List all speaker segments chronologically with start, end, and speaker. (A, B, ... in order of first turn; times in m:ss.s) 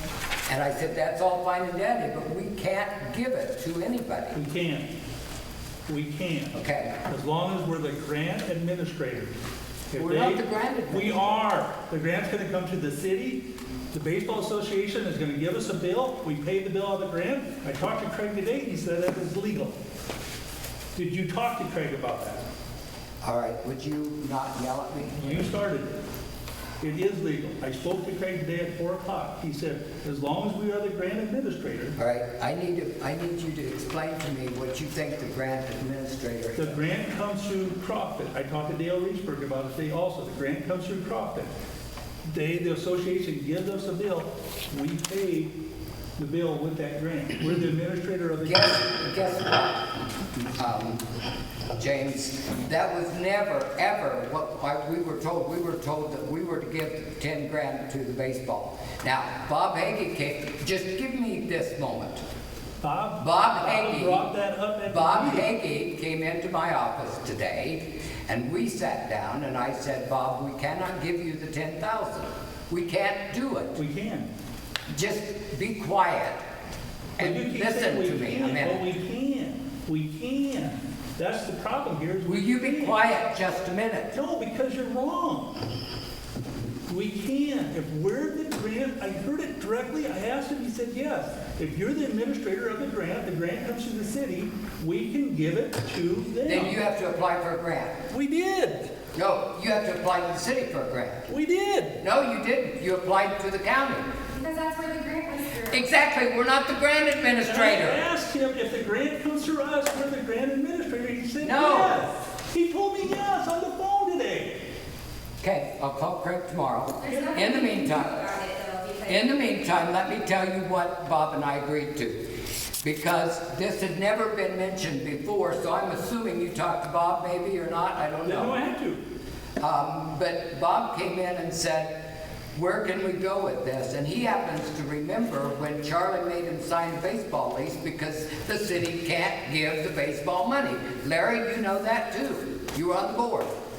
0:00.5-0:04.4 A
0:04.3-0:04.9 B
0:05.9-0:06.5 B
0:06.5-0:07.0 A
0:07.0-0:09.3 B
0:09.9-0:19.7 B
0:10.0-0:11.4 A
0:21.0-0:22.4 B
0:23.2-0:25.4 A
0:25.2-0:25.9 B
0:26.8-0:32.0 B
0:32.0-0:36.8 A
0:36.6-0:41.5 B
0:42.3-0:45.5 B
0:46.2-0:48.8 B
0:48.4-0:51.0 A
0:51.7-1:02.2 A
1:02.8-1:05.5 B
1:03.2-1:04.2 A
1:04.8-1:13.8 A
1:13.8-1:14.3 B
1:14.9-1:16.4 A
1:17.2-1:18.8 A
1:17.2-1:23.0 B
1:22.2-1:24.1 A
1:24.1-1:25.6 B
1:26.9-1:36.8 B
1:36.4-1:38.0 A
1:38.1-1:38.9 B
1:39.1-1:41.2 A
1:41.3-1:42.0 B
1:42.0-1:44.1 A
1:44.3-1:45.9 C
1:45.7-1:48.0 A
1:47.4-1:54.6 B
1:51.4-1:52.0 A
1:55.4-1:58.2 A
1:57.0-1:59.3 C
1:57.0-1:57.3 B
1:59.0-2:02.2 A
2:02.8-2:08.6 A
2:08.2-2:09.0 B
2:09.6-2:23.5 A